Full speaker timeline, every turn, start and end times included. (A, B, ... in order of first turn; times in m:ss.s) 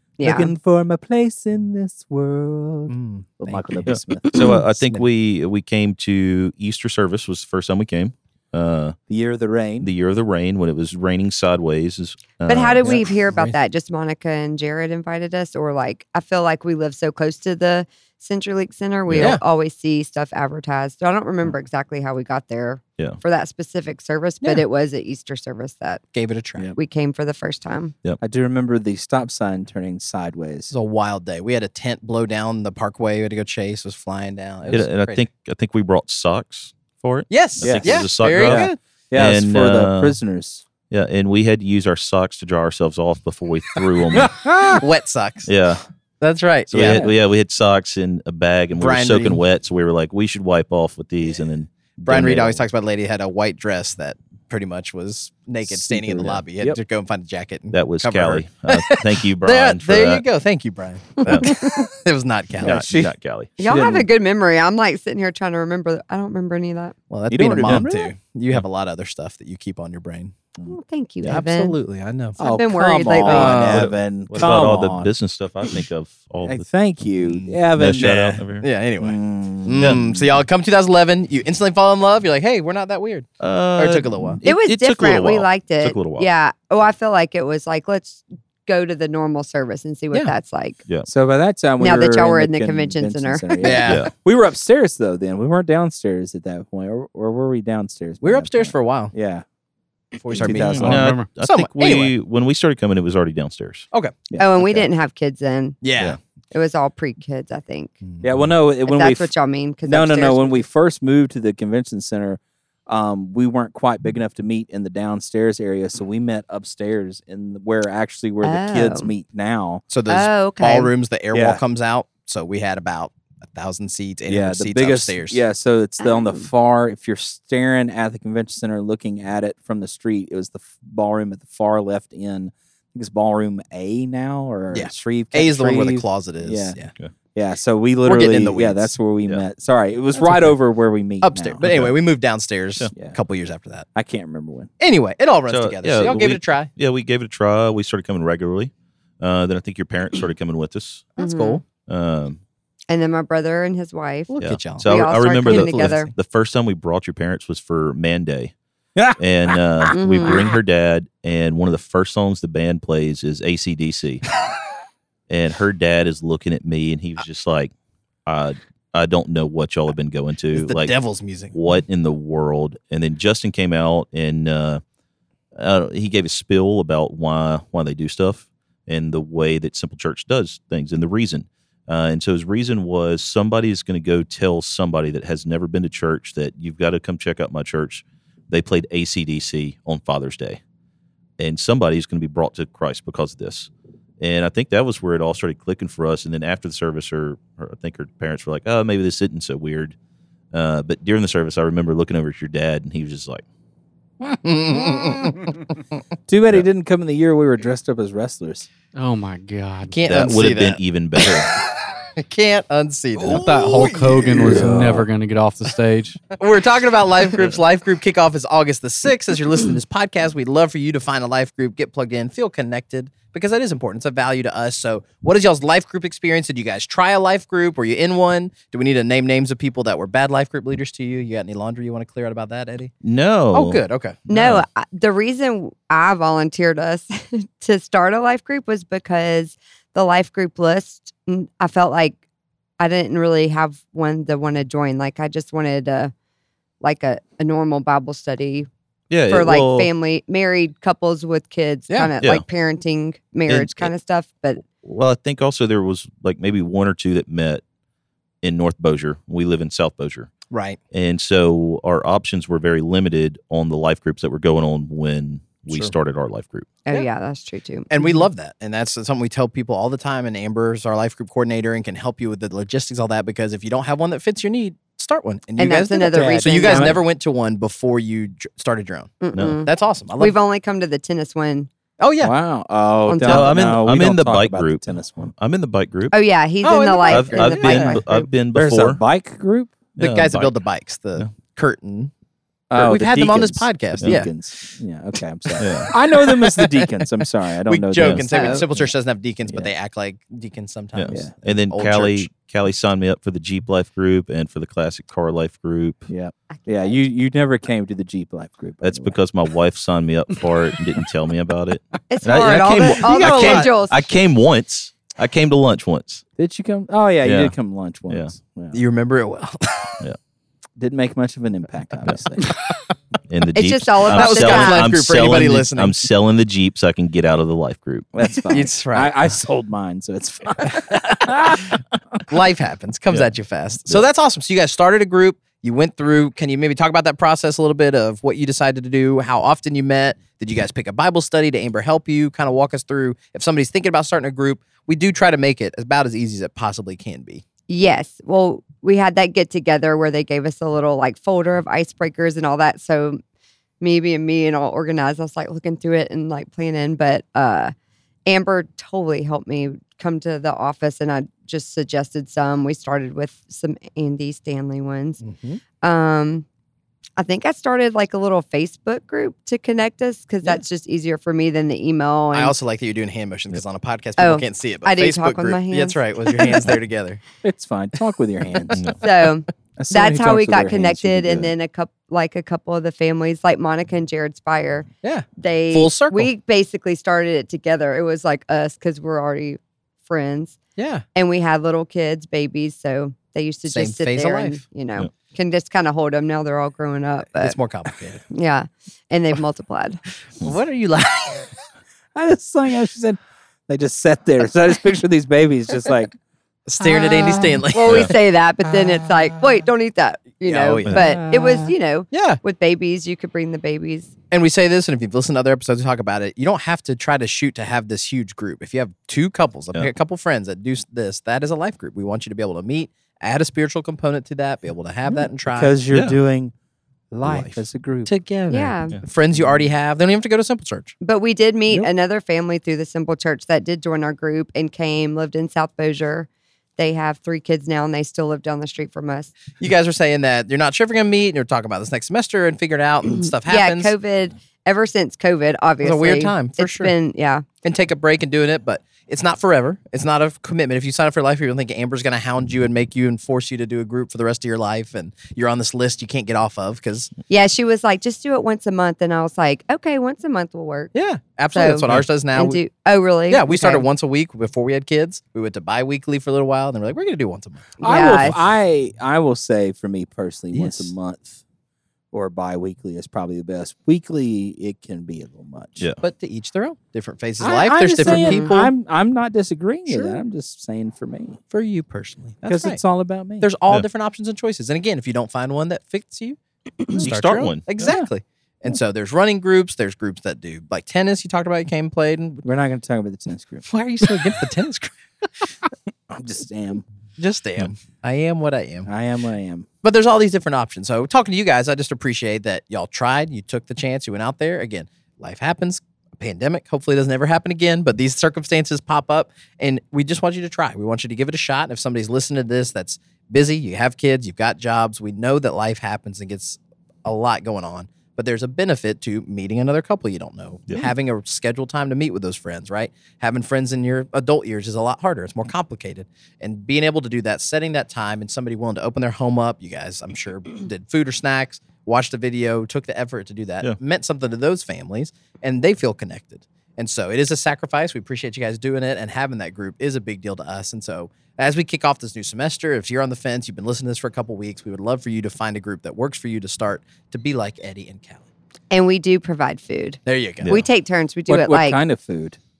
0:00.2-0:00.5 A
0:00.2-0:04.6 B
0:02.9-0:04.0 C
0:03.9-0:09.0 D
0:04.8-0:05.1 C
0:09.1-0:09.9 B
0:09.8-0:13.0 D
0:12.5-0:26.0 A
0:12.8-0:13.6 C
0:19.1-0:19.4 D
0:19.2-0:19.4 C
0:26.1-0:26.7 C
0:26.8-0:27.9 A
0:28.2-0:30.7 B
0:30.7-0:35.3 C
0:34.7-0:40.2 D
0:37.3-0:38.8 C
0:37.6-0:40.6 B
0:40.9-0:44.7 D
0:44.1-0:44.8 B
0:44.8-0:45.5 C
0:45.5-0:45.8 D
0:46.2-0:47.0 C
0:46.7-0:52.6 D
0:46.8-0:47.2 B
0:48.8-0:49.4 C
0:52.1-1:02.8 C
0:55.7-0:56.8 B
0:57.7-1:00.2 D
1:01.2-1:01.5 D
1:01.2-1:01.9 A
1:02.6-1:03.5 D
1:02.6-1:04.1 B
1:03.6-1:07.0 A
1:07.1-1:10.4 C
1:07.3-1:08.1 B
1:10.7-1:11.8 A
1:11.2-1:12.4 C
1:12.4-1:13.7 A
1:12.4-1:15.1 B
1:13.2-1:13.9 C
1:13.6-1:16.6 D
1:16.4-1:18.1 B
1:17.3-1:24.4 C
1:17.7-1:18.7 D
1:19.0-1:20.0 B
1:19.8-1:20.0 D
1:23.4-1:26.3 D
1:24.4-1:30.8 A
1:31.1-1:39.4 B
1:31.8-1:33.9 A
1:33.6-1:34.1 C
1:38.2-1:39.1 C
1:40.2-1:42.1 C
1:40.3-1:41.2 B
1:40.4-1:43.9 D
1:40.9-1:41.3 E
1:44.3-1:44.9 B
1:44.4-1:45.8 A
1:45.8-1:46.2 C
1:46.5-1:48.0 A
1:48.2-1:49.3 B
1:48.8-1:50.6 A
1:49.8-1:59.8 B
1:58.4-1:59.1 A
1:59.9-2:05.4 C
2:00.1-2:00.9 A
2:01.3-2:01.6 B
2:04.3-2:16.8 B
2:06.0-2:06.5 A
2:14.7-2:16.9 C
2:17.4-2:21.6 B
2:18.0-2:18.9 C
2:21.2-2:23.9 C
2:21.6-2:21.9 D
2:24.0-2:24.7 B
2:24.8-2:26.7 C
2:25.5-2:31.1 D
2:31.2-2:31.6 C
2:31.2-2:31.6 A
2:31.9-2:32.4 D
2:32.9-2:34.3 A
2:34.3-2:36.1 C
2:34.4-2:38.5 D
2:34.8-2:36.1 A
2:39.2-2:44.2 D
2:39.9-2:40.6 A
2:45.3-2:47.7 D
2:48.3-2:51.0 D
2:50.5-2:51.5 C
2:51.5-2:54.8 D
2:55.6-3:10.6 D
3:11.4-3:20.0 D
3:20.5-3:23.4 D
3:24.4-3:25.6 C
3:26.3-3:28.7 B
3:28.9-3:30.0 E
3:29.9-3:34.6 C
3:30.0-3:31.6 D
3:33.2-3:36.2 E
3:34.4-3:35.1 B
3:36.4-3:52.9 C
3:53.0-3:54.6 D
3:53.5-3:54.3 C
3:54.3-4:02.2 A
4:02.8-4:06.1 A
4:06.8-4:08.7 A
4:09.1-4:09.9 D
4:09.3-4:14.6 A
4:13.5-4:13.9 D
4:14.6-4:17.6 D
4:18.4-4:20.3 D
4:20.5-4:20.8 C
4:20.9-4:26.7 D
4:25.7-4:25.9 C
4:26.9-4:27.9 A
4:27.9-4:40.4 C
4:35.6-4:37.0 A
4:36.1-4:37.0 B
4:39.2-4:41.7 A
4:39.3-4:39.6 D
4:42.0-4:42.4 C
4:42.2-4:45.3 B
4:43.1-4:43.5 A
4:43.2-4:46.2 D
4:46.1-4:48.3 A
4:46.6-4:48.0 C
4:47.1-4:49.0 D
4:48.5-4:49.8 B
4:50.0-4:50.6 D
4:50.0-4:52.1 C
4:52.7-4:58.9 B
4:52.7-4:54.3 C
4:55.6-4:55.9 D
4:56.1-4:56.9 C
4:57.6-5:02.3 C
4:58.0-4:58.2 D
4:58.3-4:58.6 A
5:01.0-5:06.1 D
5:06.1-5:09.2 B
5:08.8-5:16.2 D
5:12.1-5:14.0 A
5:12.5-5:13.7 C
5:16.4-5:18.8 B
5:17.2-5:17.6 D
5:18.7-5:20.0 C
5:20.8-5:22.5 B
5:23.3-5:28.1 D
5:23.6-5:24.9 A
5:24.1-5:26.0 C
5:28.1-5:31.8 B
5:28.5-5:29.1 C
5:32.3-5:47.4 C
5:47.7-5:53.2 A
5:53.8-5:57.7 A
5:58.3-6:05.2 A
6:05.2-6:05.6 C
6:05.8-6:06.4 A
6:07.2-6:12.6 A
6:12.3-6:17.2 C
6:14.2-6:16.7 A
6:17.4-6:18.9 B
6:18.8-6:19.0 D
6:19.0-6:30.6 A
6:19.8-6:21.5 B
6:25.0-6:26.3 C
6:30.8-6:31.0 C
6:31.2-6:37.6 A
6:33.7-6:34.6 C
6:37.4-6:38.2 C
6:38.3-6:40.0 A
6:40.4-6:41.5 C
6:42.2-6:46.1 B
6:46.7-6:48.1 C
6:46.8-6:47.6 B
6:47.3-6:54.1 A
6:47.9-6:48.1 D
6:48.6-6:49.6 B
6:50.4-6:51.0 C
6:50.9-6:51.7 B
6:52.1-6:52.4 C
6:54.3-7:05.8 C
7:05.1-7:06.5 B
7:05.9-7:06.2 D
7:07.1-7:08.1 B
7:07.3-7:07.5 D
7:08.0-7:10.9 C
7:08.5-7:09.0 A
7:11.0-7:19.3 A
7:19.6-7:23.9 C
7:23.4-7:27.4 A
7:25.8-7:26.9 C
7:27.6-7:37.1 C
7:37.3-7:40.9 A
7:40.9-7:42.6 C
7:41.5-7:43.9 A
7:43.3-7:48.3 C
7:47.8-7:48.4 A
7:47.8-7:51.4 B
7:50.5-7:50.9 C
7:52.1-7:55.9 B
7:56.0-7:58.7 C
7:57.4-8:01.4 B
7:58.0-7:58.5 A
7:59.9-8:00.2 C
8:01.5-8:02.8 C
8:02.5-8:03.5 B
8:03.4-8:12.4 C
8:07.0-8:07.6 D
8:07.8-8:08.1 B
8:12.4-8:13.7 B
8:13.7-8:14.9 C
8:16.1-8:16.8 B
8:17.2-8:18.9 C
8:18.9-8:19.7 B
8:19.8-9:08.2 C
9:08.7-9:11.8 A
9:10.1-9:10.5 C
9:11.3-9:12.4 B